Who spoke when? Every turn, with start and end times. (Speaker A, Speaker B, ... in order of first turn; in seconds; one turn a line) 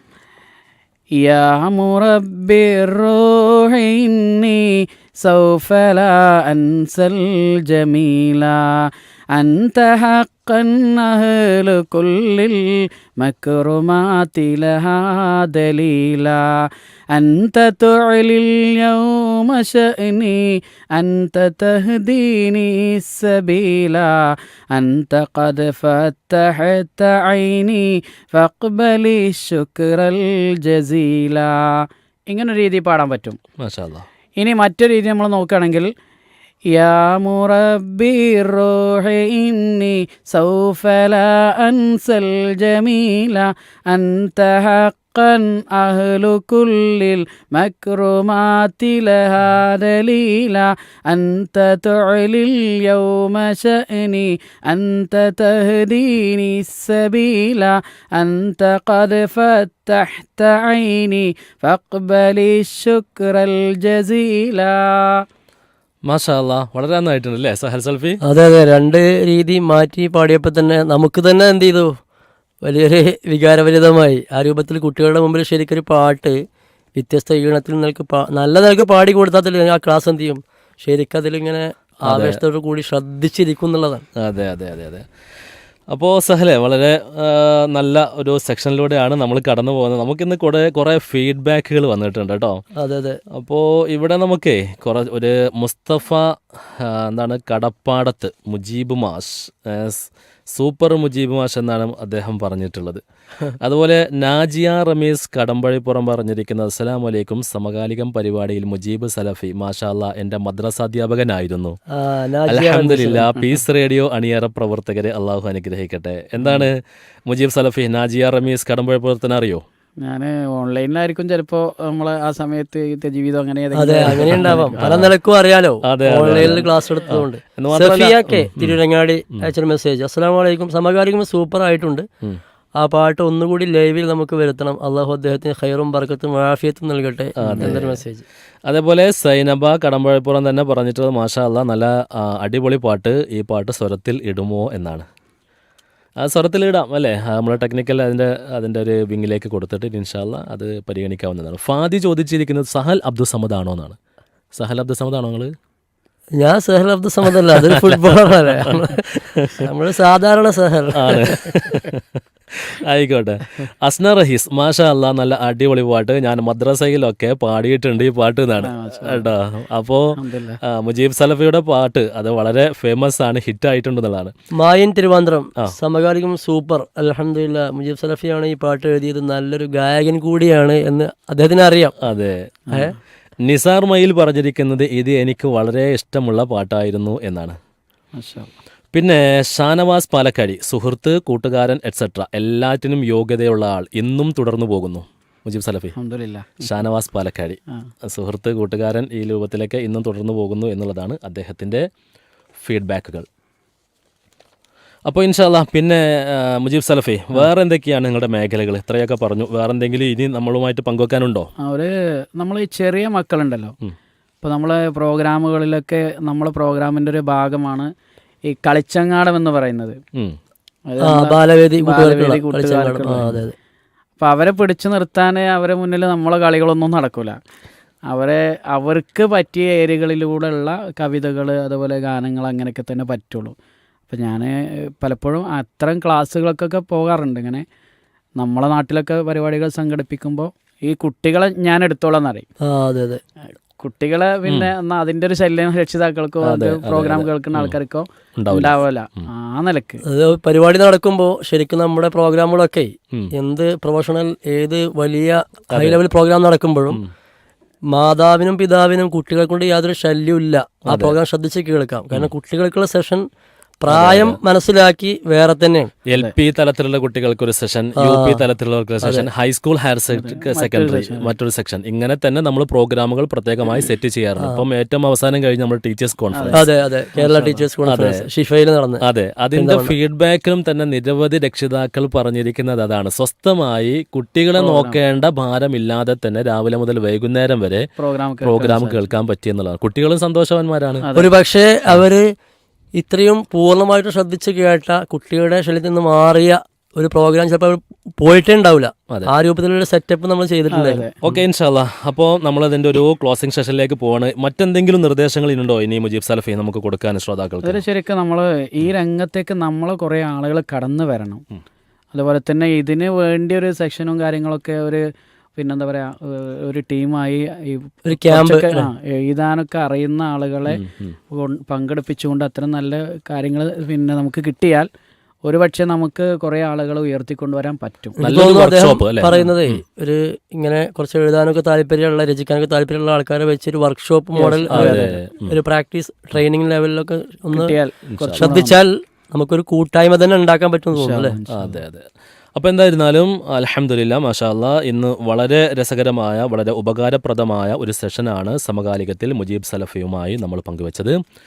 Speaker A: 1.2-33.4
Speaker B: 33.6-34.0
Speaker A: 34.4-35.9
Speaker A: 36.7-65.2
Speaker B: 66.1-68.2
Speaker C: 68.2-71.9
Speaker C: 72.7-76.4
Speaker C: 77.0-84.0
Speaker B: 82.1-82.4
Speaker B: 84.2-85.0
Speaker B: 85.9-92.6
Speaker C: 92.8-93.2
Speaker B: 93.3-103.0
Speaker B: 103.6-111.8
Speaker C: 112.0-113.6
Speaker B: 112.5-119.6
Speaker A: 116.4-116.7
Speaker A: 120.0-124.8
Speaker C: 123.8-132.1
Speaker B: 124.1-125.1
Speaker B: 125.8-128.8
Speaker C: 132.8-138.2
Speaker B: 137.4-138.0
Speaker B: 138.7-145.1
Speaker B: 146.2-154.0
Speaker B: 154.6-155.5
Speaker C: 156.4-161.8
Speaker B: 157.5-159.7
Speaker B: 160.9-174.3
Speaker A: 168.6-169.3
Speaker A: 170.2-170.6
Speaker C: 174.6-182.0
Speaker B: 182.0-182.5
Speaker A: 182.7-182.9
Speaker B: 183.4-187.6
Speaker A: 188.1-188.5
Speaker B: 188.9-195.9
Speaker A: 196.0-196.8
Speaker B: 196.6-201.9
Speaker B: 202.6-203.2
Speaker B: 205.1-211.5
Speaker A: 211.6-213.8
Speaker A: 214.4-217.9
Speaker A: 218.5-220.0
Speaker A: 220.9-223.3
Speaker C: 221.0-223.5
Speaker B: 223.1-223.4
Speaker A: 224.2-227.4
Speaker A: 228.1-233.5
Speaker A: 234.1-237.7
Speaker A: 238.4-242.5
Speaker C: 242.6-243.2
Speaker A: 243.8-250.0
Speaker B: 244.5-244.7
Speaker B: 246.4-247.8
Speaker B: 248.4-249.3
Speaker C: 250.1-257.0
Speaker B: 255.7-256.0
Speaker C: 257.9-263.2
Speaker B: 260.9-261.1
Speaker C: 263.8-265.9
Speaker B: 263.9-264.4
Speaker B: 266.1-276.6
Speaker C: 268.0-268.4
Speaker A: 270.1-271.3
Speaker A: 276.3-276.6
Speaker C: 276.5-279.0
Speaker A: 277.1-277.6
Speaker B: 277.9-278.2
Speaker B: 279.0-287.9
Speaker C: 279.5-279.9
Speaker A: 284.6-285.0
Speaker A: 288.0-289.0
Speaker B: 288.4-291.1
Speaker A: 291.0-291.3
Speaker C: 291.1-292.3
Speaker C: 292.9-301.0
Speaker A: 300.7-301.4
Speaker B: 301.2-307.8
Speaker A: 307.6-311.4
Speaker A: 312.1-315.1
Speaker A: 315.6-324.9
Speaker C: 318.1-318.9
Speaker B: 320.7-321.1
Speaker A: 325.4-328.2
Speaker B: 328.2-329.8
Speaker C: 328.2-337.8
Speaker A: 329.2-329.5
Speaker A: 334.3-335.2
Speaker B: 334.7-335.6
Speaker A: 337.5-338.8
Speaker B: 338.1-338.5
Speaker C: 338.4-341.4
Speaker A: 340.9-341.8
Speaker B: 341.5-351.2